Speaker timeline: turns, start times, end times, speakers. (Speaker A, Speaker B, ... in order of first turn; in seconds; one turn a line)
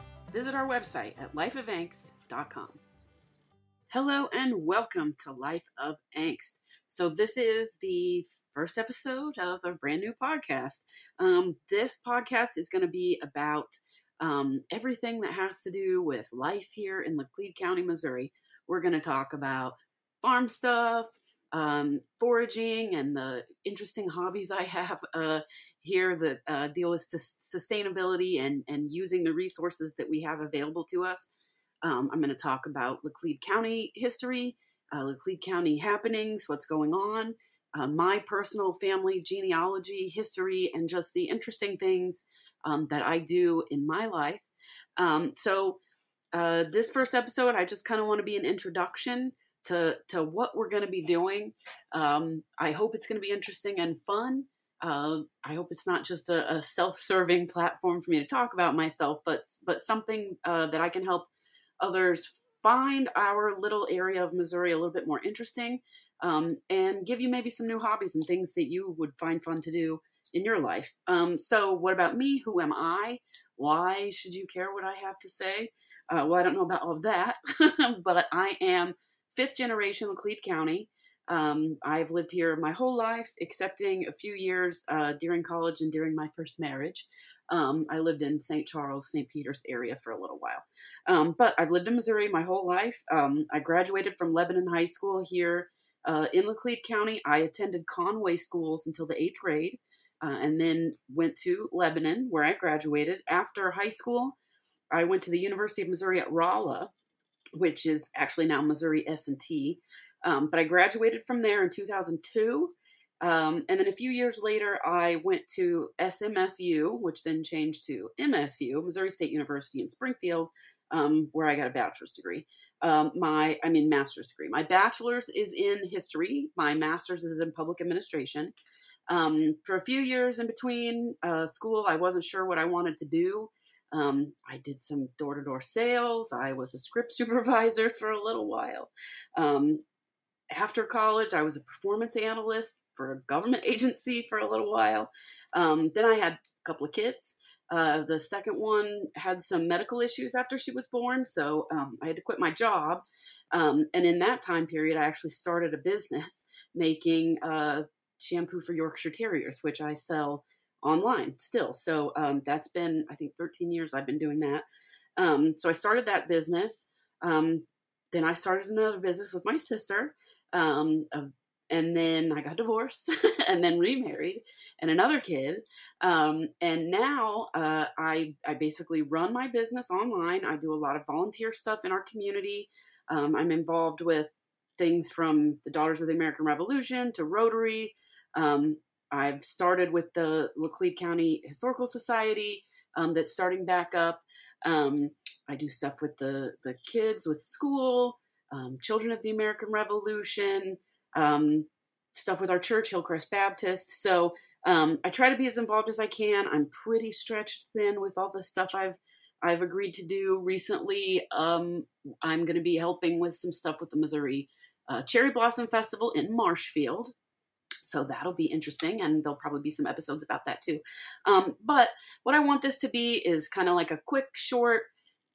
Speaker A: 0.3-2.8
Speaker A: 3.9-31.3
Speaker A: 31.8-44.5
Speaker A: 45.0-45.8
Speaker A: 46.3-61.3
Speaker A: 61.8-104.3
Speaker A: 104.9-106.9
Speaker A: 107.5-128.5
Speaker A: 129.1-139.8
Speaker A: 140.5-164.7
Speaker A: 165.2-217.1
Speaker A: 217.8-224.9